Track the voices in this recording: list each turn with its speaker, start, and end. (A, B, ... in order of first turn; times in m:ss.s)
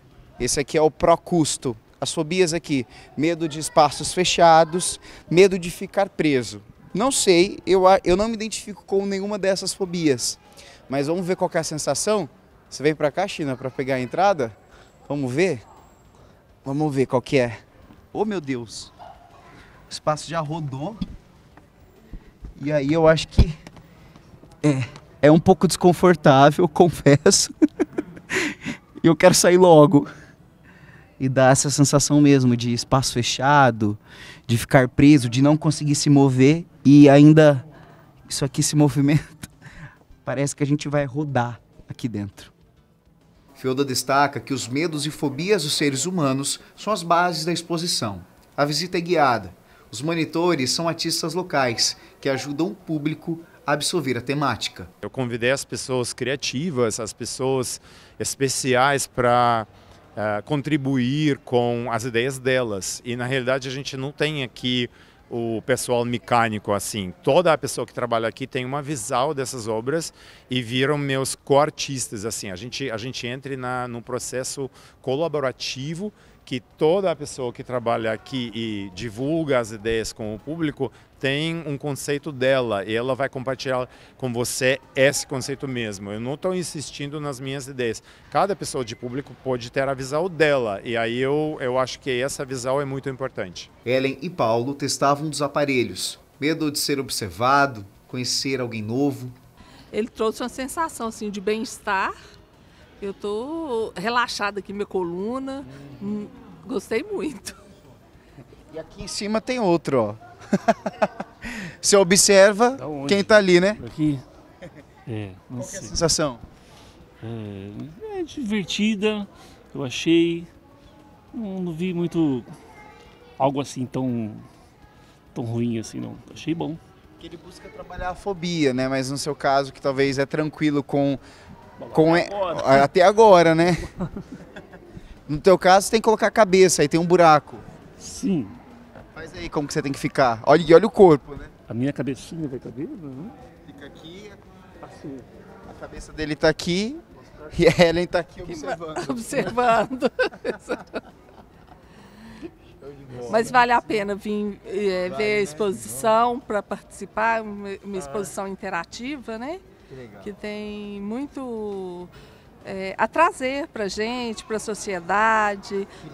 0:00.4-0:14.6 A
0:15.1-0:15.6 A
0:16.6-0:17.6 A
0:18.1-0:18.9 A
0:19.9-0:21.0 A
0:22.6-0:23.6 A
0:24.6-0:27.5 A
0:28.3-0:30.1 A
0:31.2-0:37.6 A
0:38.3-0:39.5 A
0:40.2-0:42.5 A
0:43.6-0:54.9 A
0:55.0-1:33.7 B
1:33.8-1:39.3 A
1:39.9-1:42.1 C
1:43.0-1:47.6 C
1:48.7-1:53.8 A
1:52.8-1:54.2 D
1:55.0-1:56.0 D
1:55.6-1:56.4 A
1:57.2-2:00.5 D
2:01.3-2:02.5 D
2:03.4-2:04.5 D
2:05.3-2:06.8 D
2:07.2-2:11.2 A
2:11.8-2:12.8 D
2:11.9-2:13.9 A
2:15.3-2:17.6 A
2:18.0-2:18.6 D
2:19.1-2:21.5 A
2:21.7-2:23.3 D
2:23.6-2:24.4 A
2:24.8-2:25.2 D
2:25.6-2:29.4 A
2:28.5-2:31.0 C
2:32.8-2:33.4 A
2:33.2-2:39.6 C
2:39.9-2:40.2 A
2:40.2-2:42.1 C
2:42.6-2:45.9 C